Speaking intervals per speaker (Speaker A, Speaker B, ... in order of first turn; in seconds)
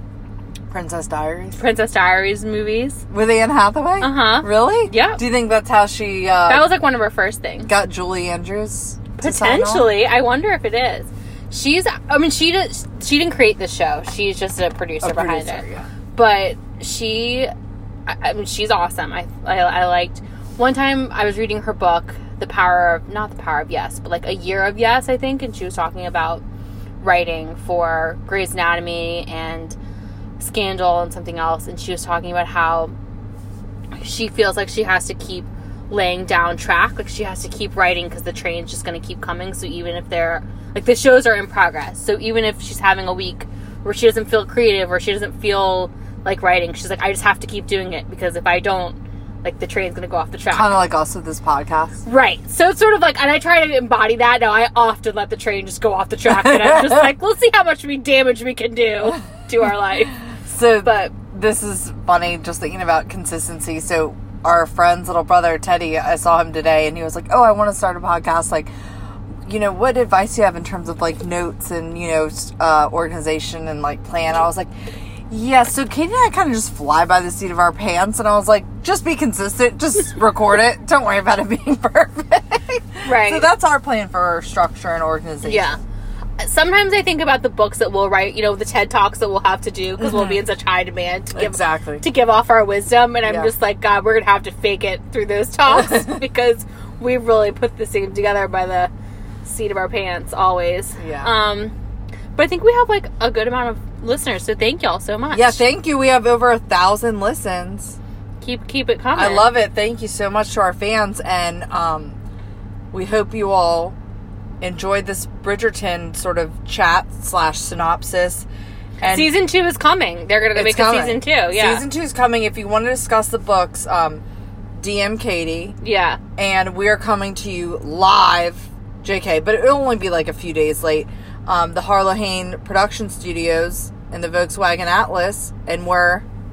Speaker A: 0.7-1.6, 3.1-6.7, 7.7-9.9, 15.0-15.9, 50.5-52.0, 56.3-57.1, 60.5-68.7, 69.5-74.7, 75.3-85.8, 90.0-90.4, 91.3-92.0, 93.2-93.5, 101.0-101.3, 105.3-108.0, 109.2-112.2, 112.9-114.0, 114.6-118.5, 119.0-119.4, 120.5-124.2, 124.8-125.8, 126.4-136.2
Speaker B: 1.6-3.0, 4.0-5.2, 6.5-7.7, 9.2-17.5, 18.1-26.4, 27.0-29.8, 30.4-32.9, 34.0-50.8, 52.0-60.2, 60.8-61.1, 83.0-83.5, 85.4-85.8, 86.4-98.9, 99.4-101.7, 102.4-105.6, 108.4-109.6, 119.0-121.8, 125.8-126.2